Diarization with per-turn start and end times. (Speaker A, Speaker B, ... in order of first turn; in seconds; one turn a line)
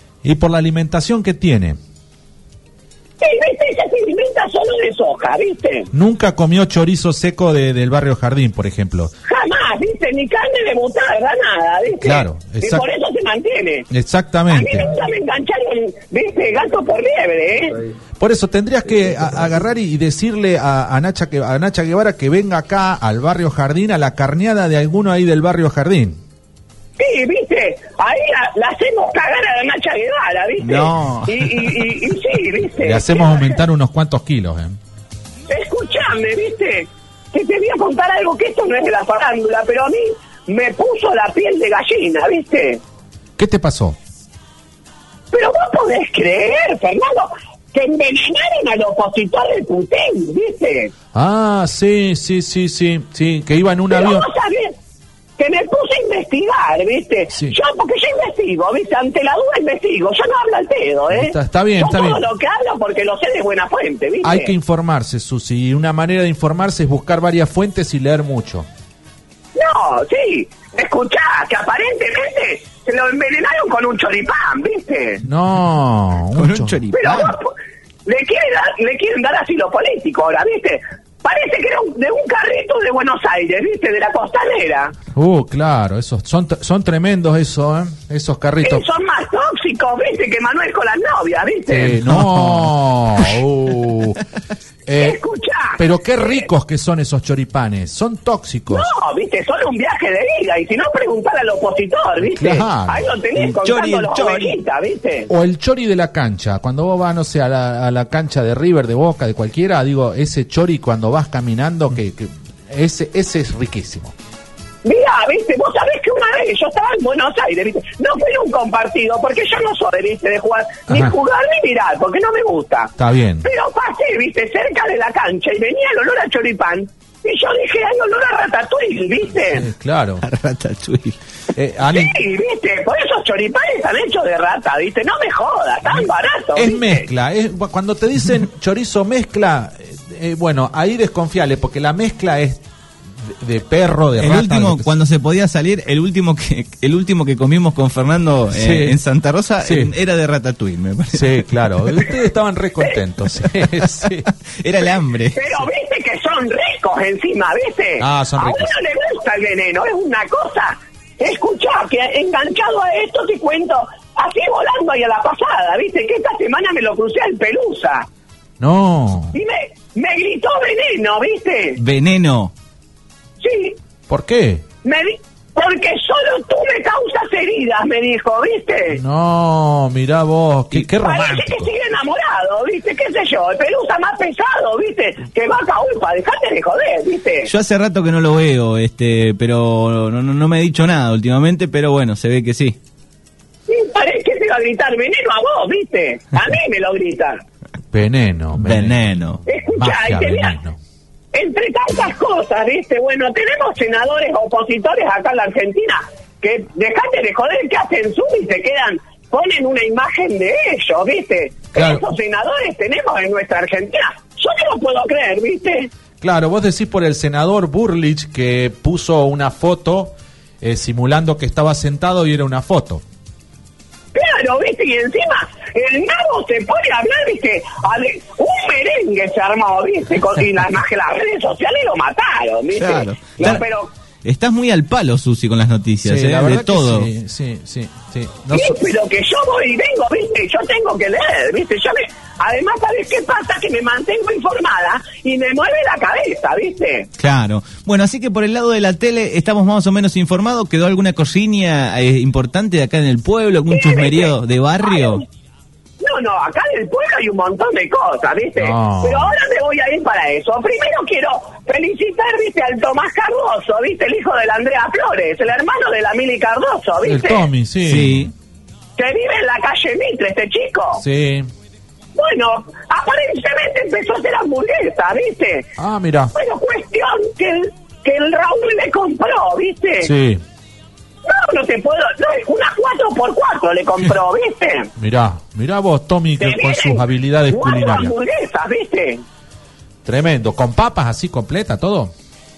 Speaker A: 0.2-1.8
Speaker B: 3.2-5.9
Speaker A: 5.9-9.1
Speaker B: 9.3-13.9
Speaker A: 12.0-12.8
Speaker A: 13.9-14.9
Speaker B: 14.5-17.8
Speaker A: 18.2-26.2
Speaker B: 27.0-33.6
Speaker C: 30.6-31.7
Speaker A: 32.8-34.8
Speaker B: 35.5-42.8
Speaker A: 43.4-44.0
Speaker B: 45.3-50.9
Speaker A: 51.1-54.3
Speaker B: 53.9-54.8
Speaker B: 55.4-64.5
Speaker A: 57.3-57.6
Speaker A: 61.1-62.2
Speaker A: 64.2-68.7
Speaker B: 69.5-75.2
Speaker A: 75.2-76.8
Speaker C: 76.3-77.3
Speaker B: 76.9-77.5
Speaker B: 78.0-85.0
Speaker A: 85.1-88.8
Speaker B: 88.6-92.0
Speaker A: 91.7-94.2
Speaker C: 92.1-92.7
Speaker A: 94.8-95.2
Speaker B: 95.0-96.5
Speaker A: 95.8-98.9
Speaker B: 98.7-105.3
Speaker A: 102.2-103.1
Speaker C: 103.3-104.6
Speaker A: 105.3-114.1
Speaker B: 114.8-129.7
Speaker A: 120.9-121.1
Speaker A: 123.0-123.5
Speaker A: 129.5-130.2
Speaker C: 130.2-131.2
Speaker A: 131.5-132.2
Speaker B: 131.9-137.1
Speaker A: 136.5-142.6
Speaker A: 143.2-144.9
Speaker C: 144.2-151.5
Speaker A: 148.5-149.0
Speaker A: 149.6-149.9
Speaker A: 151.1-154.3
Speaker C: 154.6-155.6
Speaker B: 155.3-168.1
Speaker A: 158.0-158.7
Speaker A: 168.6-169.3
Speaker B: 169.3-171.8
Speaker C: 171.8-172.5
Speaker B: 173.4-173.8
Speaker A: 174.1-174.6
Speaker B: 174.8-179.0
Speaker A: 178.9-181.7
Speaker B: 181.0-187.5
Speaker C: 187.4-192.8
Speaker B: 193.7-197.4
Speaker A: 197.9-199.1
Speaker C: 198.6-199.4
Speaker B: 199.4-200.6
Speaker A: 199.7-200.8
Speaker B: 201.3-215.9
Speaker A: 211.7-212.1
Speaker A: 216.2-223.0
Speaker B: 224.1-233.9
Speaker C: 232.7-233.6
Speaker C: 234.2-237.1
Speaker A: 236.0-238.8
Speaker B: 238.5-247.1
Speaker C: 247.2-255.2
Speaker B: 253.7-255.2
Speaker B: 256.0-267.5
Speaker A: 258.6-259.4
Speaker A: 267.0-268.3
Speaker C: 267.8-268.3
Speaker B: 269.0-271.0
Speaker A: 271.0-271.5
Speaker B: 272.1-275.7
Speaker A: 275.8-276.3
Speaker B: 276.3-280.1
Speaker A: 280.0-280.4
Speaker B: 281.2-284.9
Speaker A: 285.0-288.1
Speaker B: 286.4-289.2
Speaker A: 290.0-292.1